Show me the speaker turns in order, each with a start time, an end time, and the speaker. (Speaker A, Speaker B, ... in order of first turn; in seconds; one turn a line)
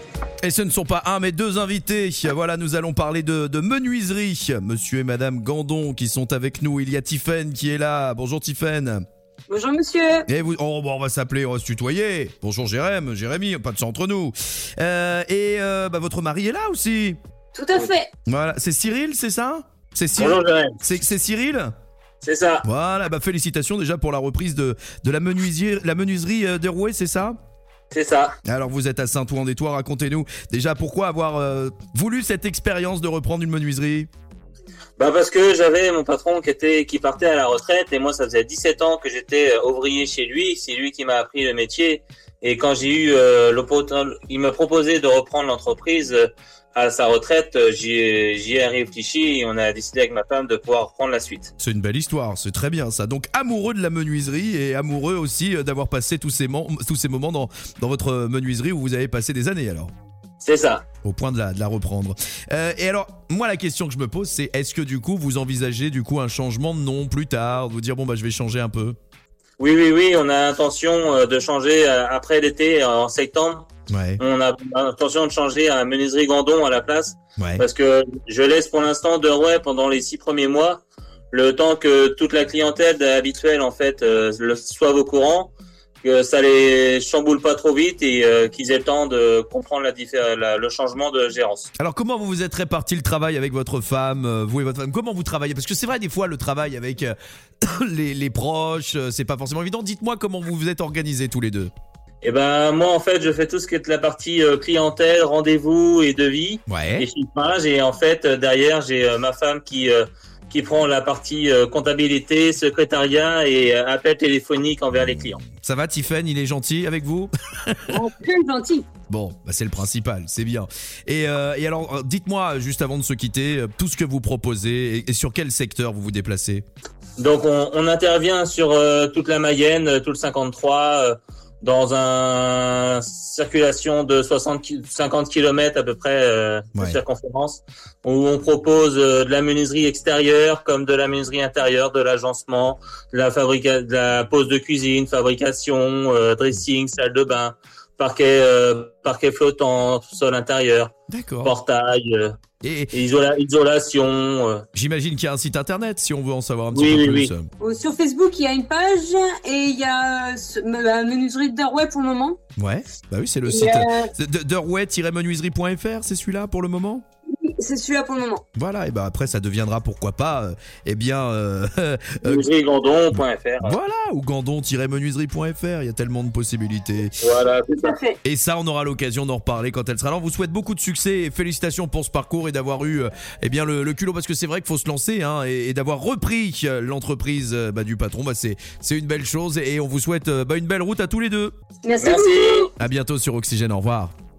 Speaker A: 0.4-9.0
Speaker B: 9.5-10.3
Speaker A: 10.3-17.2
Speaker B: 17.6-18.1
Speaker A: 18.3-21.7
Speaker C: 20.2-20.8
Speaker C: 22.2-22.7
Speaker A: 22.6-27.4
Speaker C: 27.9-28.4
Speaker A: 28.5-34.1
Speaker C: 35.0-51.5
Speaker A: 51.6-59.9
Speaker C: 60.4-60.8
Speaker A: 61.0-69.0
Speaker C: 69.6-73.7
Speaker A: 73.9-74.2
Speaker C: 74.2-85.5
Speaker A: 77.4-77.7
Speaker C: 86.0-91.7
Speaker A: 91.8-101.7
Speaker C: 102.2-115.4
Speaker A: 106.7-107.1
Speaker A: 114.9-118.0
Speaker B: 117.9-118.9
Speaker A: 119.1-126.7
Speaker C: 127.2-152.4
Speaker A: 136.8-137.0
Speaker A: 151.1-151.6
Speaker A: 152.6-152.9
Speaker C: 152.9-154.7
Speaker A: 154.8-157.5
Speaker C: 156.7-157.3
Speaker B: 157.6-162.4
Speaker A: 162.6-167.0
Speaker B: 163.5-164.1
Speaker B: 167.3-168.4
Speaker A: 168.6-172.4
Speaker C: 172.2-173.8
Speaker A: 173.1-177.2
Speaker C: 177.2-178.0
Speaker B: 177.8-178.2
Speaker A: 178.2-191.5
Speaker B: 191.8-192.7
Speaker C: 192.0-192.7
Speaker A: 192.8-194.1